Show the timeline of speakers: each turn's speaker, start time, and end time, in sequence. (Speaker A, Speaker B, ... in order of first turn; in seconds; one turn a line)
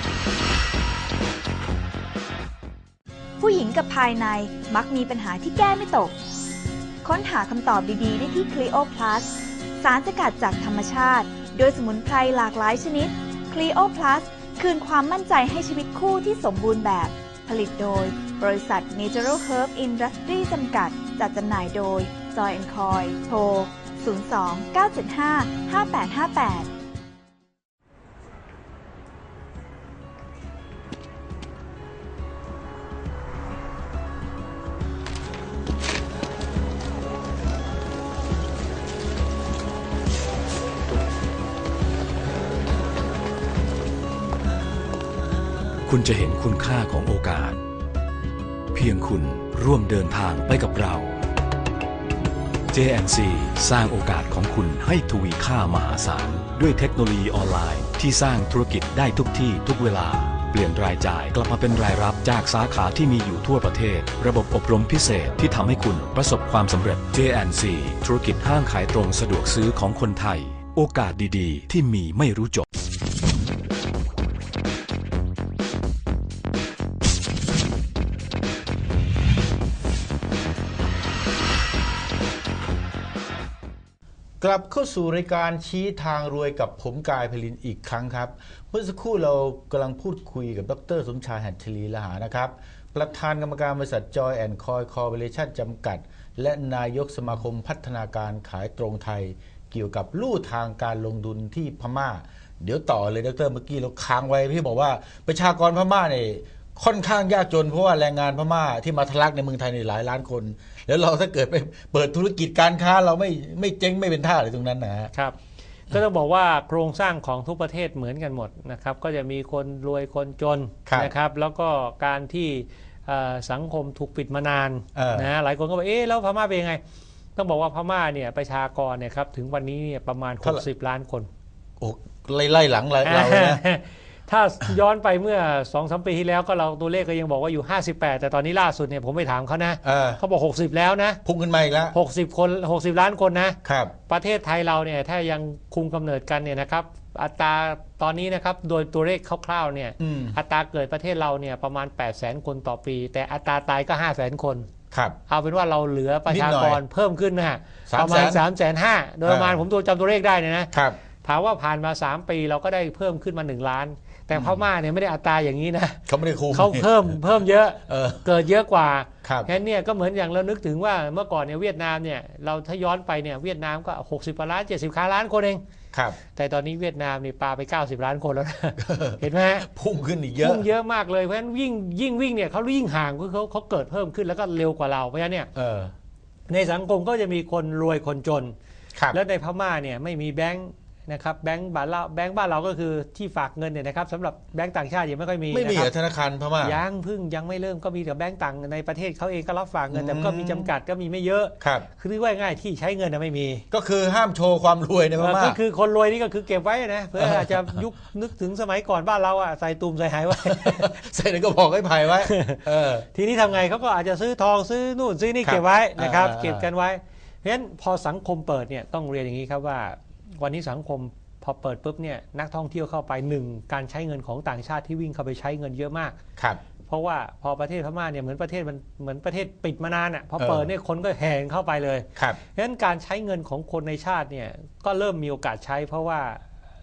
Speaker A: 3.4-6.2
Speaker A: 7.0-26.7
Speaker B: 45.9-47.6
Speaker B: 48.7-51.2
Speaker B: 52.7-72.6
Speaker C: 84.4-115.1
Speaker D: 115.9-126.8
Speaker C: 120.9-121.1
Speaker C: 125.0-125.3
Speaker D: 127.4-131.3
Speaker C: 131.8-133.6
Speaker D: 133.0-141.2
Speaker C: 139.8-140.2
Speaker C: 141.2-141.9
Speaker D: 141.9-154.7
Speaker C: 143.6-143.9
Speaker C: 150.0-150.4
Speaker C: 154.9-155.2
Speaker D: 155.3-166.0
Speaker C: 156.3-156.8
Speaker C: 157.9-158.4
Speaker C: 159.2-159.6
Speaker C: 164.3-164.6
Speaker C: 166.1-166.9
Speaker D: 166.5-175.6
Speaker C: 167.9-168.2
Speaker C: 169.2-169.5
Speaker C: 175.9-176.2
Speaker D: 176.3-179.7
Speaker C: 178.8-180.7
Speaker D: 180.4-185.5
Speaker C: 185.6-185.9
Speaker D: 186.5-188.6
Speaker D: 189.1-195.9
Speaker C: 195.5-196.8
Speaker D: 196.6-203.6
Speaker C: 199.9-200.7
Speaker C: 201.6-201.9
Speaker C: 203.7-205.6
Speaker D: 205.2-211.0
Speaker C: 207.2-207.8
Speaker C: 210.3-213.1
Speaker D: 212.2-226.2
Speaker C: 215.4-216.7
Speaker D: 226.9-236.4
Speaker C: 230.4-230.7